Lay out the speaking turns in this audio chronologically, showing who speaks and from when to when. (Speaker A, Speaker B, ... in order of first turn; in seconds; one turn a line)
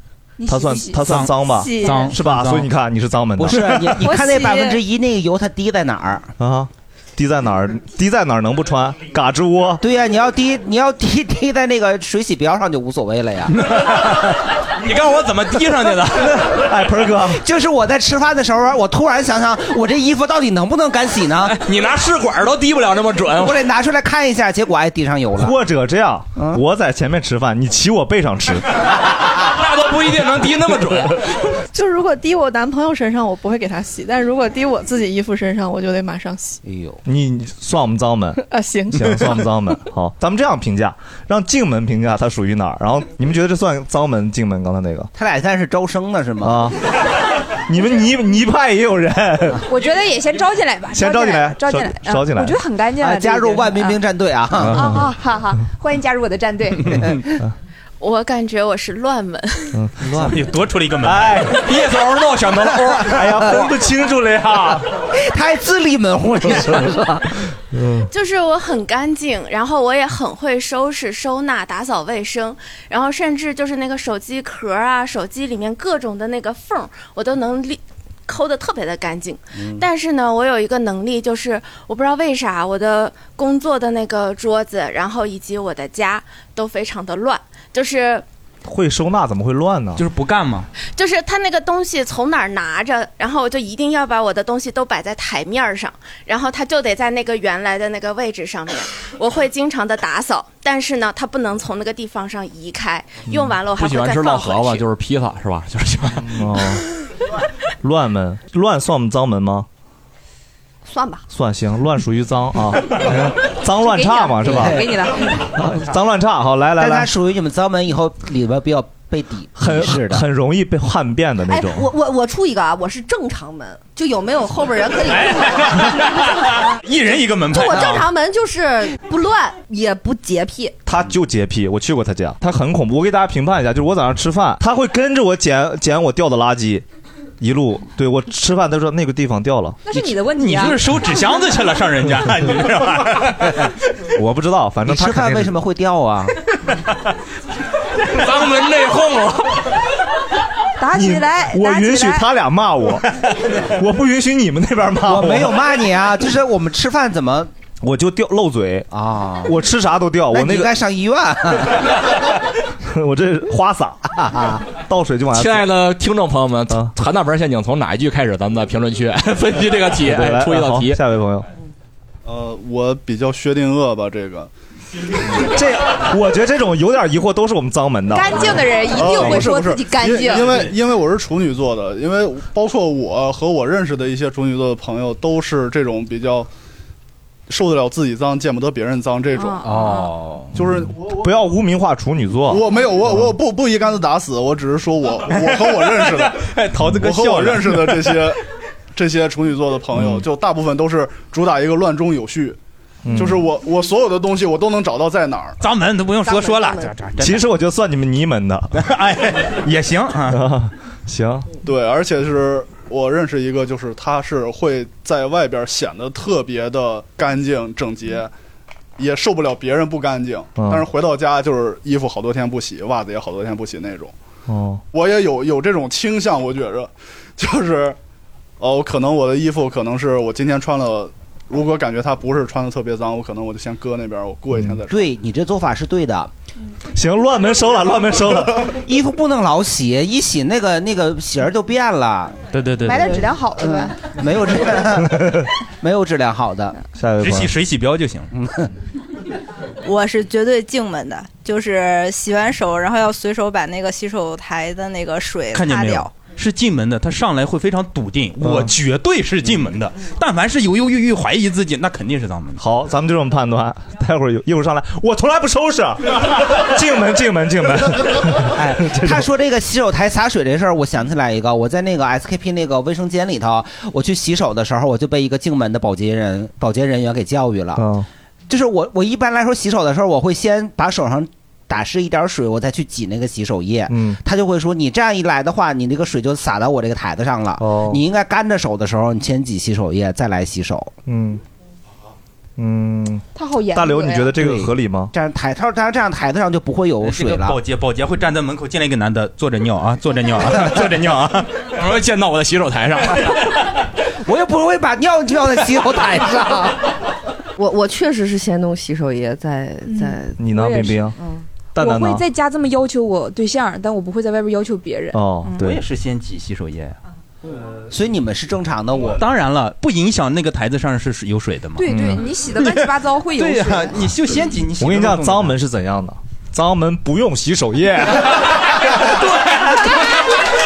Speaker A: 0.4-1.0
Speaker B: 0.5-3.8
Speaker C: 1.0-2.7
Speaker A: 1.7-2.1
Speaker D: 3.4-6.3
Speaker A: 4.0-4.8
Speaker B: 6.4-9.8
Speaker D: 9.8-13.6
Speaker E: 14.8-16.3
Speaker B: 16.5-17.4
Speaker D: 17.3-21.6
Speaker E: 21.5-23.6
Speaker D: 23.4-25.6
Speaker B: 25.4-28.7
Speaker D: 26.4-26.6
Speaker E: 29.3-31.2
Speaker F: 31.7-36.6
Speaker D: 36.6-37.0
Speaker B: 37.0-45.1
Speaker F: 38.4-39.2
Speaker D: 45.1-46.7
Speaker B: 46.4-46.8
Speaker B: 47.7-49.6
Speaker A: 49.7-54.0
Speaker B: 50.9-52.6
Speaker D: 53.0-54.9
Speaker B: 54.6-55.1
Speaker A: 54.7-57.0
Speaker G: 58.0-59.8
Speaker B: 59.7-60.4
Speaker C: 60.0-62.7
Speaker B: 61.0-61.7
Speaker B: 62.6-64.8
Speaker D: 63.1-63.7
Speaker D: 65.1-67.3
Speaker B: 67.7-68.1
Speaker G: 68.1-88.2
Speaker D: 79.6-79.8
Speaker B: 88.7-90.0
Speaker C: 90.0-90.7
Speaker G: 91.0-104.8
Speaker E: 103.7-106.3
Speaker B: 106.3-106.8
Speaker B: 107.8-109.7
Speaker H: 110.8-111.2
Speaker B: 111.3-114.9
Speaker A: 113.8-115.3
Speaker D: 114.4-115.0
Speaker B: 115.5-117.1
Speaker D: 116.8-120.2
Speaker B: 119.6-121.9
Speaker H: 121.5-125.9
Speaker C: 125.0-128.1
Speaker H: 127.5-130.8
Speaker B: 130.8-136.8
Speaker B: 137.4-139.8
Speaker A: 139.8-141.2
Speaker C: 140.3-143.6
Speaker B: 144.2-145.5
Speaker D: 144.8-146.3
Speaker E: 148.1-149.6
Speaker A: 150.8-152.3
Speaker B: 150.9-153.1
Speaker B: 153.6-155.6
Speaker D: 155.0-157.5
Speaker B: 157.8-158.9
Speaker D: 158.9-159.6
Speaker B: 159.4-160.7
Speaker D: 160.3-161.9
Speaker B: 162.8-164.1
Speaker D: 164.2-164.6
Speaker B: 164.8-165.6
Speaker E: 165.3-171.0
Speaker B: 166.7-166.9
Speaker B: 170.0-171.4
Speaker I: 172.2-174.5
Speaker B: 175.3-179.4
Speaker A: 178.1-180.7
Speaker I: 178.9-186.5
Speaker I: 187.5-189.7
Speaker A: 189.4-190.1
Speaker C: 189.6-190.5
Speaker I: 190.5-191.2
Speaker B: 190.7-193.1
Speaker I: 192.5-198.4
Speaker C: 195.3-198.2
Speaker I: 198.9-202.6
Speaker B: 199.9-200.2
Speaker B: 203.0-203.4
Speaker I: 203.2-205.6
Speaker C: 205.6-207.5
Speaker H: 206.2-207.0
Speaker B: 207.2-208.7
Speaker C: 208.7-210.4
Speaker B: 210.3-211.4
Speaker I: 211.6-218.3
Speaker I: 219.0-224.1
Speaker B: 220.6-220.9
Speaker B: 224.5-224.8
Speaker I: 224.9-228.0
Speaker I: 228.6-235.0
Speaker D: 234.9-236.3
Speaker B: 236.9-238.7
Speaker D: 238.7-246.8
Speaker C: 242.5-242.9
Speaker A: 242.8-243.9
Speaker B: 245.2-245.4
Speaker B: 247.0-247.5
Speaker C: 247.2-248.3
Speaker D: 248.3-248.7
Speaker J: 249.8-256.1
Speaker C: 255.5-262.6
Speaker B: 258.4-258.7
Speaker B: 262.6-269.2
Speaker D: 268.6-277.8
Speaker B: 277.8-278.1
Speaker D: 278.5-290.9
Speaker B: 283.9-284.2
Speaker B: 287.6-288.0
Speaker B: 291.1-291.4
Speaker B: 292.6-295.1
Speaker A: 293.3-294.3
Speaker D: 294.4-297.6
Speaker C: 297.0-301.6
Speaker E: 301.7-303.4
Speaker D: 304.2-306.8
Speaker H: 307.6-310.4
Speaker A: 309.9-311.0
Speaker B: 310.4-311.1
Speaker B: 311.8-312.2
Speaker A: 311.8-315.6
Speaker B: 315.1-315.8
Speaker C: 315.6-317.0
Speaker D: 317.9-319.2
Speaker C: 319.0-321.9
Speaker A: 321.8-324.1
Speaker B: 321.9-322.2
Speaker C: 322.6-325.6
Speaker B: 324.8-328.4